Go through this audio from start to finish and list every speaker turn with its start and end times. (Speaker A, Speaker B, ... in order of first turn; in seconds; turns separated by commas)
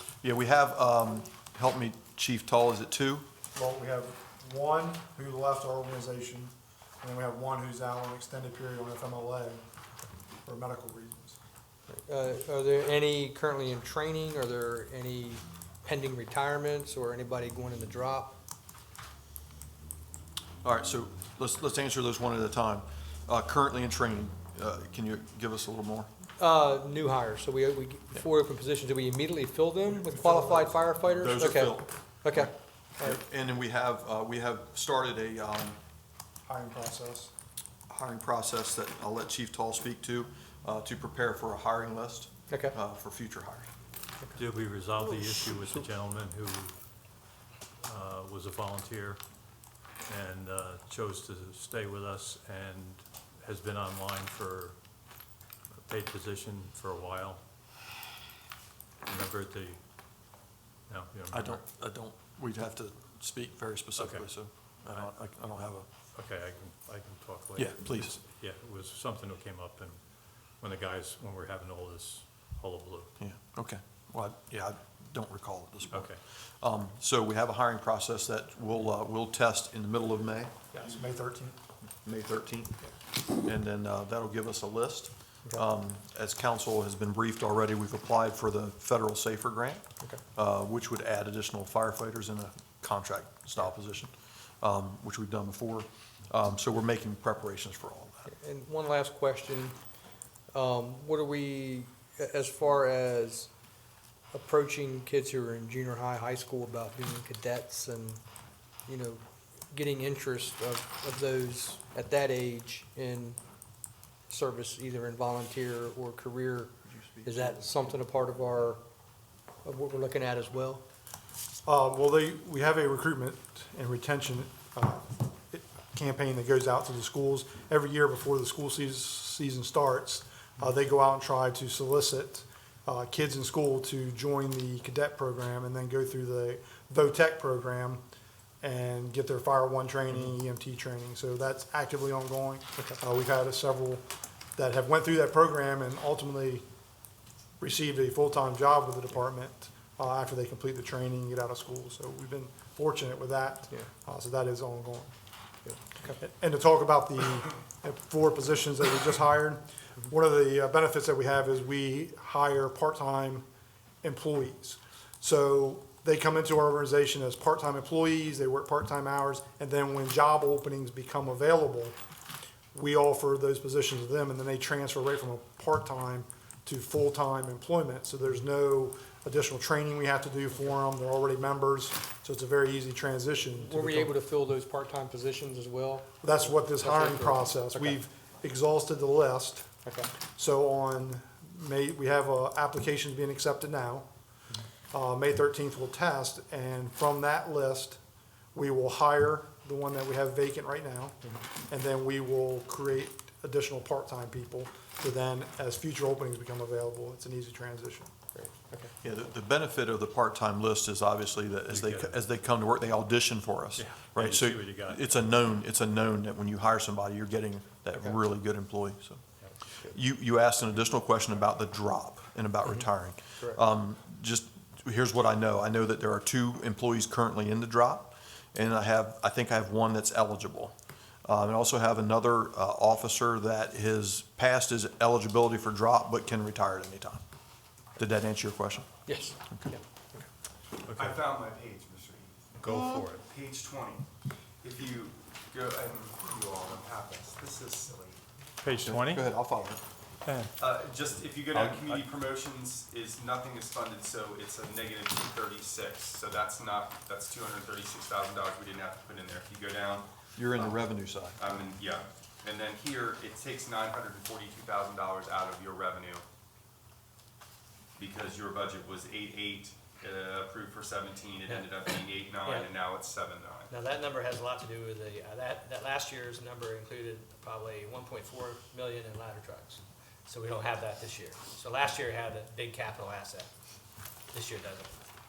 Speaker A: 0.2-3.3, Speaker B: 3.5-9.6, Speaker B: 10.4-11.4, Speaker C: 11.9-18.4, Speaker A: 20.6-26.1, Speaker C: 26.4-33.2, Speaker B: 29.9-30.7, Speaker A: 31.2-35.8, Speaker B: 36.5-37.3, Speaker A: 37.9-43.7, Speaker C: 42.5-42.7, Speaker D: 44.4-46.7, Speaker D: 47.8-49.2, Speaker D: 50.1-54.8, Speaker D: 55.8-57.4, Speaker D: 59.0-59.8, Speaker D: 60.9-61.6, Speaker A: 61.3-65.9, Speaker D: 64.0-64.3, Speaker D: 66.1-70.0, Speaker A: 67.6-68.2, Speaker D: 70.6-73.1, Speaker A: 73.2-80.5, Speaker D: 75.9-76.2, Speaker B: 80.7-81.6, Speaker A: 82.0-82.8, Speaker A: 83.3-89.8, Speaker A: 90.3-98.3, Speaker C: 98.3-99.8, Speaker C: 100.5-103.5, Speaker C: 104.3-108.2, Speaker C: 108.9-113.4, Speaker C: 114.3-118.8, Speaker A: 116.9-117.8, Speaker C: 119.6-120.8, Speaker B: 121.7-138.0, Speaker B: 138.6-144.0, Speaker B: 144.6-146.6, Speaker B: 147.6-155.1, Speaker C: 155.7-156.2, Speaker B: 156.2-163.4, Speaker B: 164.0-172.0, Speaker B: 172.7-184.1, Speaker C: 183.5-188.0, Speaker B: 186.2-189.7, Speaker C: 189.8-190.1, Speaker B: 190.3-194.1, Speaker B: 194.9-198.0, Speaker B: 198.5-208.1, Speaker C: 208.3-208.9, Speaker A: 209.0-219.2, Speaker D: 211.7-212.2, Speaker D: 213.8-215.2, Speaker A: 219.8-230.7, Speaker A: 231.2-237.2, Speaker A: 238.0-238.9, Speaker C: 239.1-240.2, Speaker E: 240.9-244.1, Speaker D: 240.9-241.1, Speaker D: 242.6-243.2, Speaker E: 244.6-248.2, Speaker D: 248.6-249.3, Speaker A: 248.8-249.8, Speaker E: 250.6-260.8, Speaker A: 251.5-252.0, Speaker A: 260.4-261.4, Speaker E: 261.4-266.2, Speaker E: 268.0-273.7, Speaker F: 271.4-271.7, Speaker F: 272.4-272.7, Speaker F: 273.7-283.5, Speaker F: 284.3-285.0